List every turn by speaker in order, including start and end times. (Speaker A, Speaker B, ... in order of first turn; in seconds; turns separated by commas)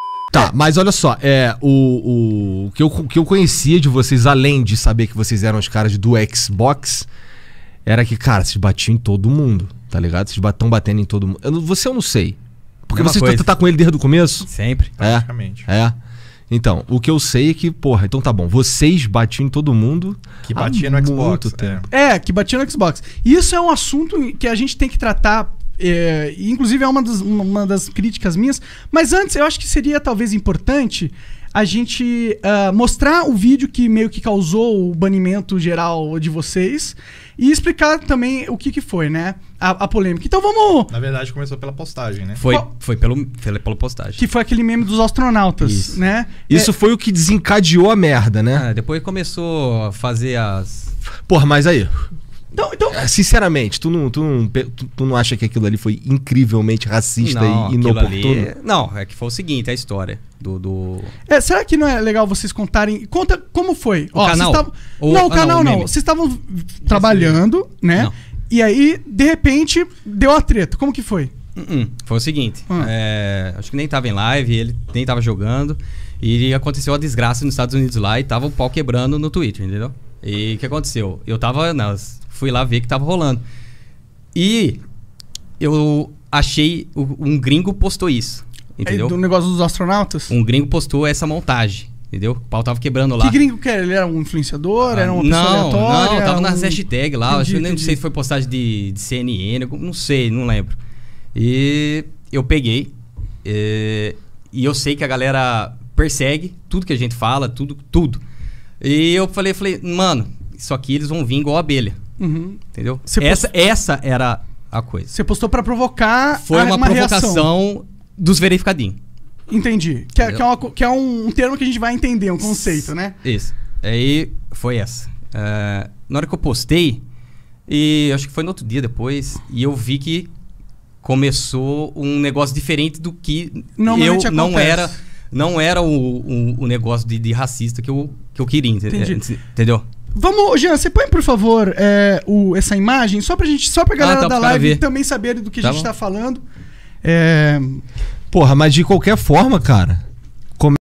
Speaker A: 0.3-7.1, Speaker A: 7.9-12.4, Speaker A: 12.9-14.5, Speaker B: 12.9-13.5, Speaker B: 14.4-14.9, Speaker C: 15.0-15.7, Speaker A: 15.0-15.9, Speaker A: 16.5-21.9, Speaker C: 20.4-21.9, Speaker D: 21.9-40.9, Speaker C: 40.9-42.4, Speaker B: 42.4-44.2, Speaker D: 44.2-46.7, Speaker B: 45.6-46.0, Speaker A: 46.5-48.6, Speaker B: 48.5-50.9, Speaker A: 51.3-52.1, Speaker D: 52.5-53.0, Speaker A: 52.9-58.5, Speaker B: 57.2-61.1, Speaker D: 61.3-71.3, Speaker B: 64.1-65.9, Speaker B: 66.9-67.4, Speaker B: 71.6-83.4, Speaker B: 84.3-84.8, Speaker B: 85.6-89.1, Speaker D: 88.8-90.3, Speaker B: 90.3-93.4, Speaker D: 93.2-98.0, Speaker B: 94.8-100.8, Speaker B: 101.3-102.9, Speaker B: 103.4-108.2, Speaker B: 108.8-112.0, Speaker D: 112.2-113.5, Speaker B: 112.7-115.1, Speaker D: 115.1-117.5, Speaker B: 116.4-119.0, Speaker D: 119.5-123.2, Speaker B: 122.6-127.0, Speaker B: 127.7-130.3, Speaker B: 131.0-139.8, Speaker D: 133.8-134.9, Speaker D: 138.9-139.2, Speaker D: 140.1-146.4, Speaker B: 144.0-144.8, Speaker B: 145.6-145.9, Speaker D: 147.0-147.8, Speaker A: 148.3-150.0